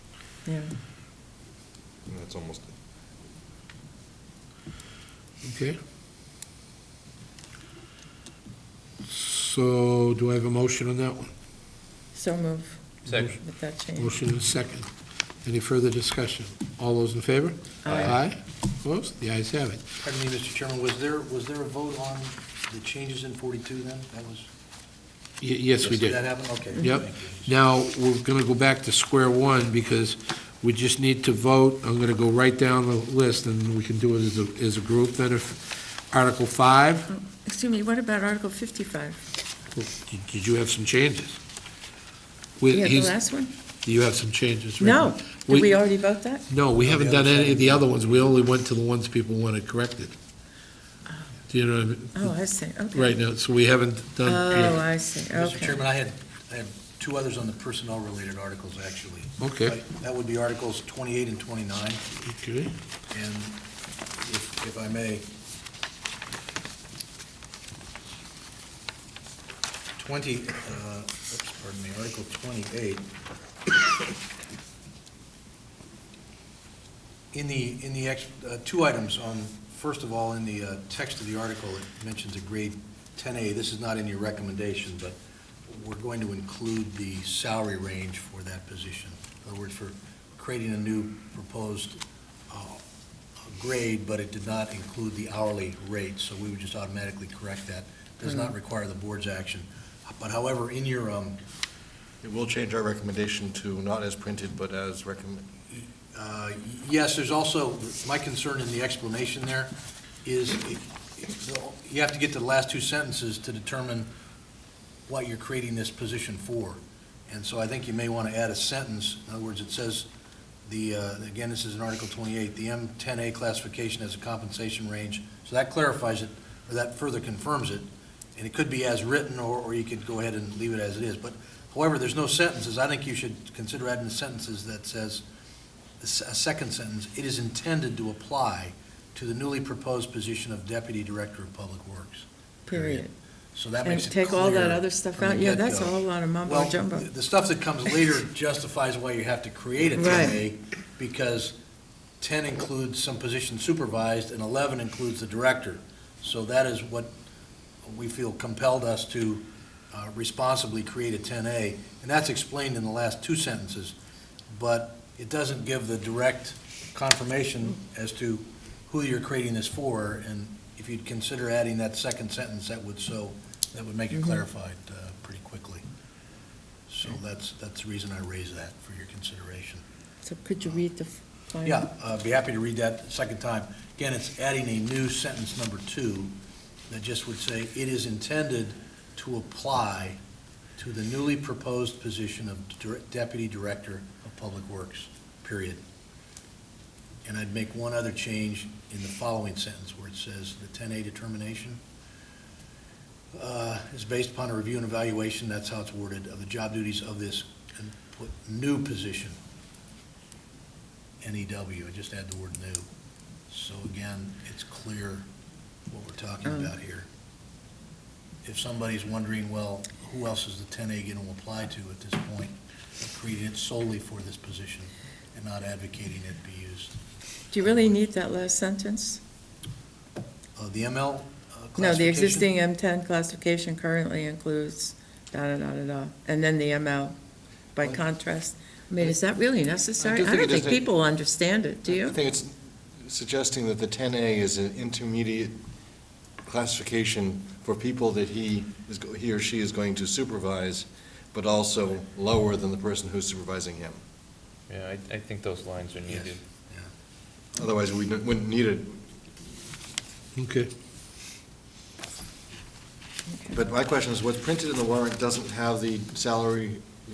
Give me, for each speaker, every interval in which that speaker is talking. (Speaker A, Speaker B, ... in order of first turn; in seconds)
Speaker A: 2.1-2.7, 102.2-105.5, 240.0-240.9, 241.9-245.6, 246.4-254.0, 257.5-259.0, 263.5-266.9
Speaker B: 5.4-5.8, 9.0-11.3, 13.1-13.4, 14.0-14.9, 15.4-19.8, 25.4-26.2, 26.8-37.1, 39.7-41.4, 42.6-43.1, 43.8-45.8, 46.5-50.1, 51.5-52.3, 52.9-54.8, 59.4-59.8, 62.2-62.7, 260.4-260.7
Speaker C: 12.1-14.1, 17.8-18.1, 37.1-39.2, 42.7-43.5, 44.8-46.4, 52.1-53.1, 54.2-55.8, 142.7-143.1, 143.8-147.1, 149.9-150.4, 174.1-174.4, 180.2-181.8, 227.5-229.2, 231.8-237.2, 237.7-242.2
Speaker D: 13.0-13.3, 17.9-18.1, 254.7-256.4
Speaker E: 20.0-24.5, 25.8-27.5, 46.8-48.4, 55.3-62.0, 63.1-63.6, 64.2-65.3, 70.0-73.1, 77.3-92.8, 93.4-101.4, 105.7-114.1, 115.1-120.1, 120.7-135.2, 136.0-151.6, 152.2-157.1, 157.8-163.9, 164.5-175.8, 176.9-179.8, 181.6-186.3, 186.9-190.2, 190.8-195.8, 197.2-201.8, 203.3-209.4, 211.2-212.8, 213.5-215.3, 215.9-217.1, 218.4-227.0, 227.6-228.0, 230.6-232.5, 256.1-256.9